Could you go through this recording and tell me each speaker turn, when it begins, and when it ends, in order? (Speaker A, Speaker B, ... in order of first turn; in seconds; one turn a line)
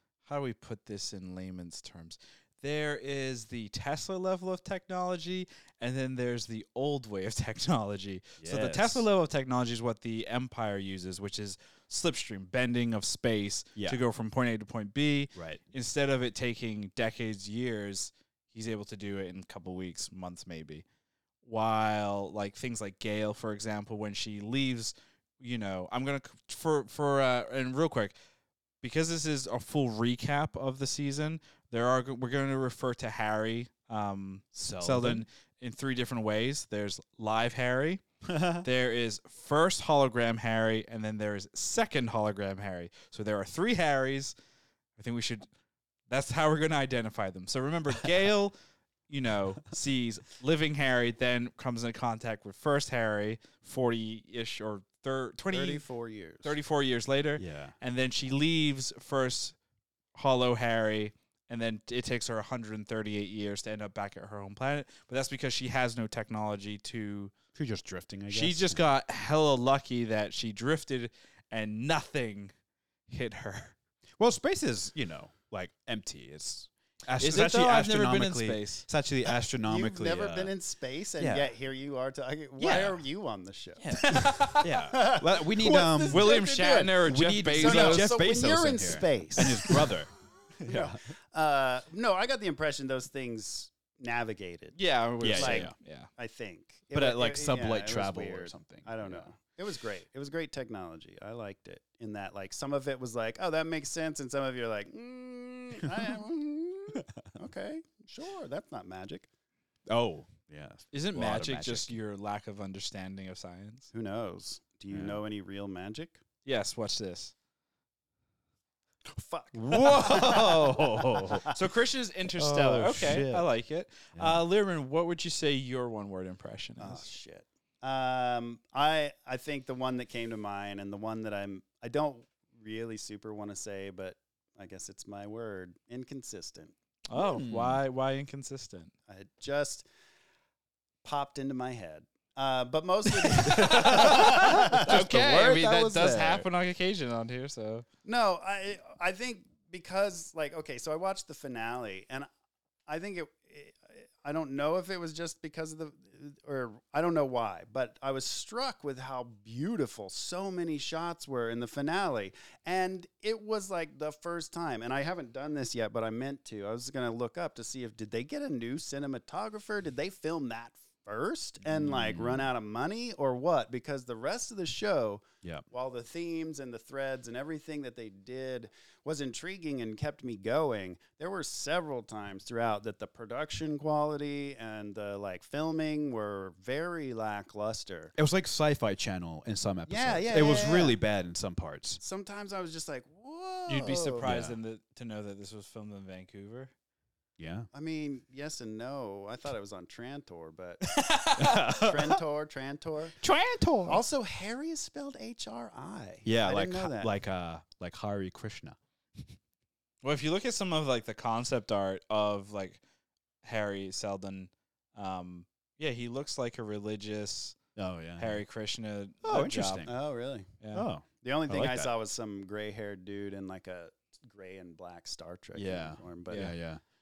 Speaker A: 0.2-20.8
Speaker B: 8.4-9.1
Speaker B: 15.3-15.6
Speaker A: 21.4-28.1
Speaker A: 28.8-38.0
Speaker B: 34.5-35.2
Speaker B: 38.2-38.6
Speaker A: 38.6-44.3
Speaker A: 45.0-45.5
Speaker A: 46.1-48.5
Speaker A: 49.1-55.8
Speaker C: 55.5-56.5
Speaker A: 56.4-59.5
Speaker B: 57.4-57.7
Speaker A: 60.1-67.3
Speaker B: 67.5-68.8
Speaker A: 68.3-72.5
Speaker A: 73.1-73.8
Speaker B: 74.2-80.5
Speaker A: 77.2-78.8
Speaker C: 79.6-87.0
Speaker B: 81.2-81.5
Speaker B: 82.6-83.0
Speaker A: 83.8-84.7
Speaker B: 83.9-86.4
Speaker A: 85.6-88.1
Speaker B: 87.0-91.0
Speaker C: 87.6-89.9
Speaker C: 90.6-94.8
Speaker A: 94.8-96.1
Speaker B: 95.2-95.7
Speaker C: 95.3-109.3
Speaker B: 96.9-99.3
Speaker B: 105.8-106.1
Speaker B: 109.9-111.9
Speaker A: 110.9-113.9
Speaker C: 113.9-116.2
Speaker B: 114.9-115.2
Speaker A: 116.4-117.3
Speaker C: 119.1-121.5
Speaker B: 119.5-121.5
Speaker A: 119.7-120.5
Speaker A: 121.4-127.0
Speaker B: 122.4-123.5
Speaker B: 124.1-124.4
Speaker C: 126.8-136.7
Speaker A: 137.1-138.9
Speaker B: 137.1-137.8
Speaker C: 139.1-139.9
Speaker C: 141.0-146.4
Speaker A: 143.3-147.8
Speaker B: 143.5-145.0
Speaker C: 148.0-152.3
Speaker C: 152.9-188.1
Speaker B: 171.6-172.5
Speaker B: 188.2-192.0
Speaker C: 189.9-191.0
Speaker C: 192.0-194.2
Speaker A: 193.7-196.7
Speaker B: 194.2-194.6
Speaker B: 197.4-197.7
Speaker C: 197.7-203.2
Speaker A: 200.8-201.6
Speaker B: 201.3-202.2
Speaker B: 203.2-204.0
Speaker C: 203.9-207.1
Speaker B: 206.2-209.3
Speaker A: 210.0-212.8
Speaker A: 213.4-217.6
Speaker B: 217.8-218.4
Speaker A: 218.2-219.9
Speaker B: 219.2-219.9
Speaker C: 219.9-220.5
Speaker A: 220.6-220.9
Speaker B: 220.7-221.9
Speaker C: 221.2-226.5
Speaker B: 225.6-226.8